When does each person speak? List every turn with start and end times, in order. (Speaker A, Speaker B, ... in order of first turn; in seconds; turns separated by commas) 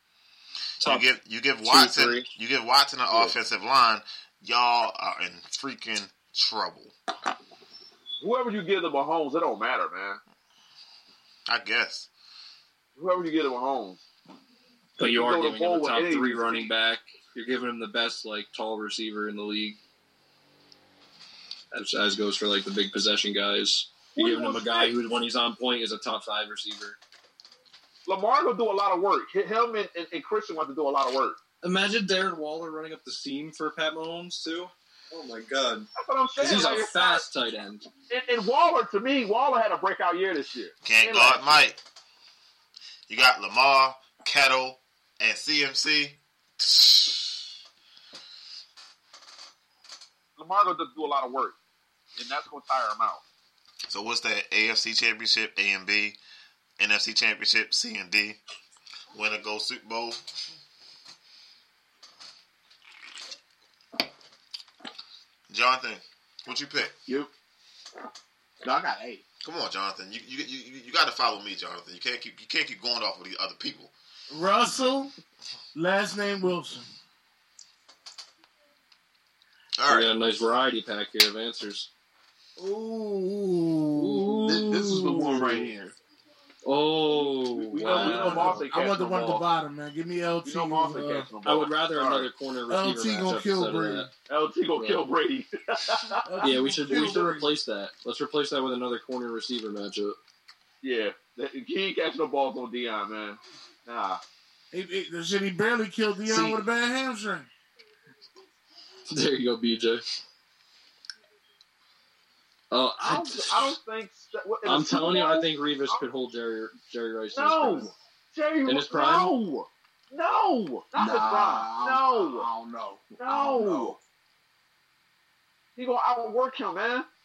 Speaker A: 0.8-1.1, Speaker B: 0.8-7.0, Speaker A: 1.6-2.3, Speaker C: 3.1-3.4, Speaker C: 8.2-10.2, Speaker B: 11.5-12.1, Speaker C: 13.0-14.0, Speaker C: 15.0-16.7, Speaker A: 15.0-19.8, Speaker A: 21.7-27.0, Speaker C: 24.1-24.9, Speaker C: 28.1-31.4, Speaker A: 31.6-37.9, Speaker C: 36.0-37.2, Speaker C: 38.1-41.6, Speaker B: 40.9-41.8, Speaker B: 43.1-47.5, Speaker C: 50.4-51.6, Speaker C: 52.2-53.2, Speaker B: 53.9-56.2, Speaker B: 56.8-58.4, Speaker B: 59.1-60.2, Speaker B: 65.5-67.0, Speaker D: 68.6-69.2, Speaker B: 69.4-73.9, Speaker E: 74.3-75.1, Speaker E: 75.7-76.8, Speaker B: 79.8-80.1, Speaker A: 79.9-81.9, Speaker E: 82.6-85.6, Speaker A: 84.0-85.5, Speaker D: 84.5-85.9, Speaker A: 86.6-88.7, Speaker C: 87.1-89.5, Speaker E: 87.8-91.3, Speaker C: 90.5-92.3, Speaker A: 91.4-94.1, Speaker E: 92.7-94.1, Speaker C: 94.3-97.2, Speaker A: 94.8-95.0, Speaker E: 96.2-97.5, Speaker A: 96.4-100.2, Speaker C: 100.8-104.2, Speaker E: 104.7-107.5, Speaker D: 106.3-106.6, Speaker A: 109.1-110.0, Speaker A: 112.7-113.8, Speaker C: 113.0-116.0, Speaker A: 114.7-117.9, Speaker C: 117.3-122.5, Speaker A: 118.7-119.3, Speaker D: 121.0-124.0, Speaker C: 123.2-124.0, Speaker C: 125.8-127.1